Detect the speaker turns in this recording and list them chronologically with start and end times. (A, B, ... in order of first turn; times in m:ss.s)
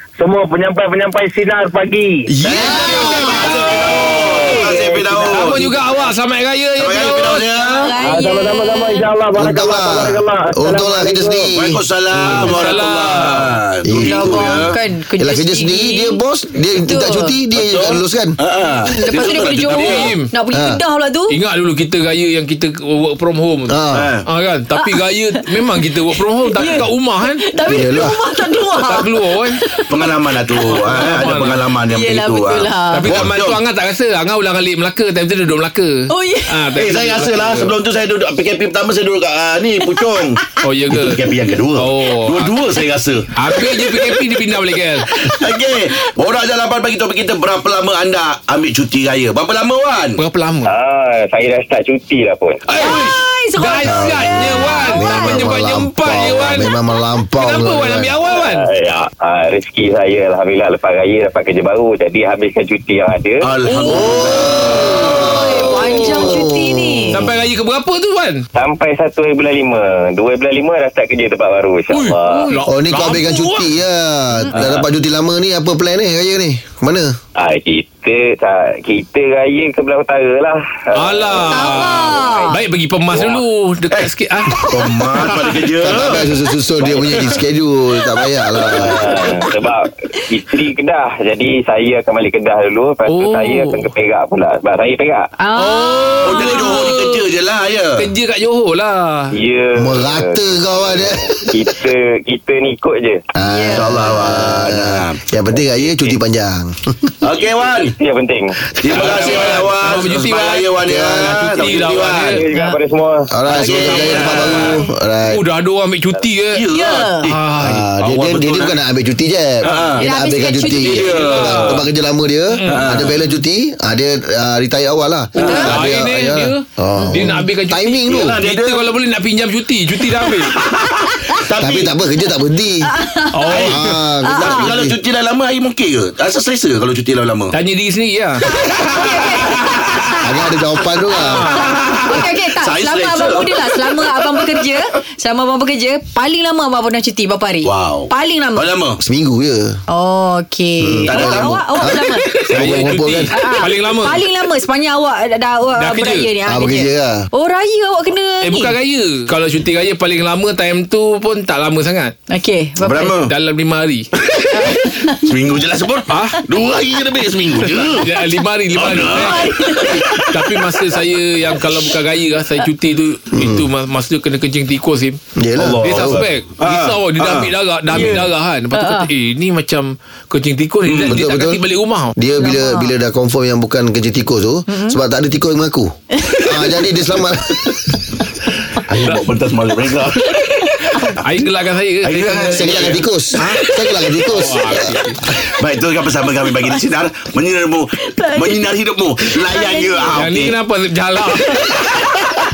0:00.2-0:02.3 A
0:02.4-0:03.1 B
0:02.4-0:05.7 C
0:02.5-0:03.5 D
0:02.8-0:04.6 E
0:04.5-0:05.3 A
0:05.3-0:07.5 E
0:06.8-0:07.9 C
0:07.6-0:09.1 D
0:08.0-0:11.5 A
0:09.4-0:11.8 B
0:11.5-0:14.8 C
0:12.2-0:13.6 E
0:13.9-0:14.6 B
0:14.0-0:16.2 D
0:15.2-0:18.4 B
0:16.8-0:17.3 D
0:17.6-0:20.1 C
0:18.9-0:21.4 D
0:19.7-0:20.3 E
0:20.5-0:20.8 B
0:21.3-0:27.4 E
0:23.7-0:24.1 B
0:23.9-0:24.3 C
0:24.8-0:31.3 D
0:27.7-0:28.2 B
0:28.8-0:29.6 E
0:29.9-0:33.6 C
0:30.7-0:31.6 E
0:31.9-0:33.2 D
0:32.9-0:37.7 E
0:36.1-0:36.8 D
0:36.8-0:43.3 C
0:40.6-0:41.2 E
0:41.8-0:42.6 E
0:43.4-0:45.1 E
0:43.6-0:44.2 D
0:45.1-0:46.1 D
0:45.2-0:50.2 C
0:50.2-0:50.7 E
0:50.6-0:52.6 F
0:52.7-0:56.7 E
0:52.7-0:55.5 D
0:53.8-0:58.1 B
0:56.6-0:57.0 D
0:57.4-0:58.7 E
0:58.3-1:03.5 F
1:03.4-1:05.2 C
1:03.6-1:07.2 D
1:03.9-1:07.2 B
1:05.9-1:06.4 E
1:07.1-1:08.5 E
1:08.6-1:12.5 F
1:11.9-1:13.7 E
1:12.3-1:12.7 D
1:12.7-1:17.2 B
1:17.4-1:22.6 F
1:20.9-1:26.3 E
1:21.5-1:22.6 D
1:23.9-1:26.2 C
1:25.8-1:29.0 B
1:26.8-1:27.0 F
1:28.7-1:35.3 F
1:33.1-1:33.9 E
1:35.4-1:36.8 D
1:35.6-1:37.2 E
1:36.2-1:38.1 C
1:38.0-1:39.3 E
1:39.3-1:40.4 F
1:39.8-1:41.7 B
1:41.5-1:43.2 F
1:43.3-1:47.1 B
1:43.4-1:44.2 D
1:43.8-1:45.2 C
1:45.8-1:46.1 C
1:47.2-1:48.0 C
1:47.9-1:48.6 F
1:48.7-1:52.4 C
1:48.9-1:52.4 E
1:50.8-1:51.4 B
1:52.3-1:53.3 F
1:52.5-1:52.8 D
1:53.3-1:55.4 B
1:53.5-1:54.7 C
1:53.6-1:54.3 D
1:53.6-1:56.6 E
1:56.5-1:57.2 C
1:56.7-1:57.3 D
1:57.2-1:57.9 E
1:57.6-2:08.4 B
1:58.0-1:58.8 C
1:59.6-2:00.1 C
2:00.0-2:01.3 D
2:00.7-2:01.9 C
2:01.1-2:01.8 E
2:02.6-2:03.1 E
2:02.7-2:03.2 C
2:05.4-2:05.7 C
2:05.4-2:05.7 D
2:05.5-2:10.6 E
2:08.1-2:08.9 C
2:10.6-2:11.9 C
2:11.6-2:12.9 B
2:12.9-2:13.6 D
2:13.3-2:14.0 E
2:13.5-2:15.0 B
2:14.2-2:14.7 D
2:14.3-2:17.6 C
2:17.5-2:18.4 E
2:18.4-2:20.3 D
2:18.7-2:19.9 C
2:20.2-2:21.5 B
2:21.2-2:22.0 E
2:21.5-2:28.7 D
2:21.6-2:24.7 C
2:27.6-2:29.0 C
2:29.0-2:29.8 B
2:29.9-2:32.4 D
2:30.8-2:33.3 B
2:31.1-2:32.0 C
2:32.5-2:34.2 E
2:33.3-2:38.8 D
2:35.8-2:36.3 E
2:36.5-2:37.3 B
2:38.4-2:42.1 E
2:42.3-2:43.2 D
2:42.8-2:43.3 C
2:43.2-2:44.1 E
2:44.2-2:48.2 C
2:44.5-2:45.3 D
2:46.1-2:46.4 E
2:47.6-2:55.2 E
2:48.8-2:50.6 C
2:49.1-2:50.1 D
2:53.3-2:53.6 B
2:55.4-2:56.2 B
2:55.6-2:58.2 C
2:55.8-3:02.1 E
2:58.8-2:59.1 D
3:00.9-3:01.2 C
3:01.1-3:01.6 B
3:02.2-3:08.0 B
3:02.4-3:02.9 D
3:04.7-3:05.0 D
3:06.2-3:06.5 D
3:08.8-3:10.6 C
3:09.0-3:09.3 E
3:10.4-3:11.0 D
3:10.8-3:13.6 E
3:12.0-3:13.0 C
3:12.5-3:14.9 B
3:14.2-3:15.2 E
3:15.3-3:20.6 C
3:18.1-3:18.6 D
3:19.2-3:20.2 D
3:20.1-3:21.9 E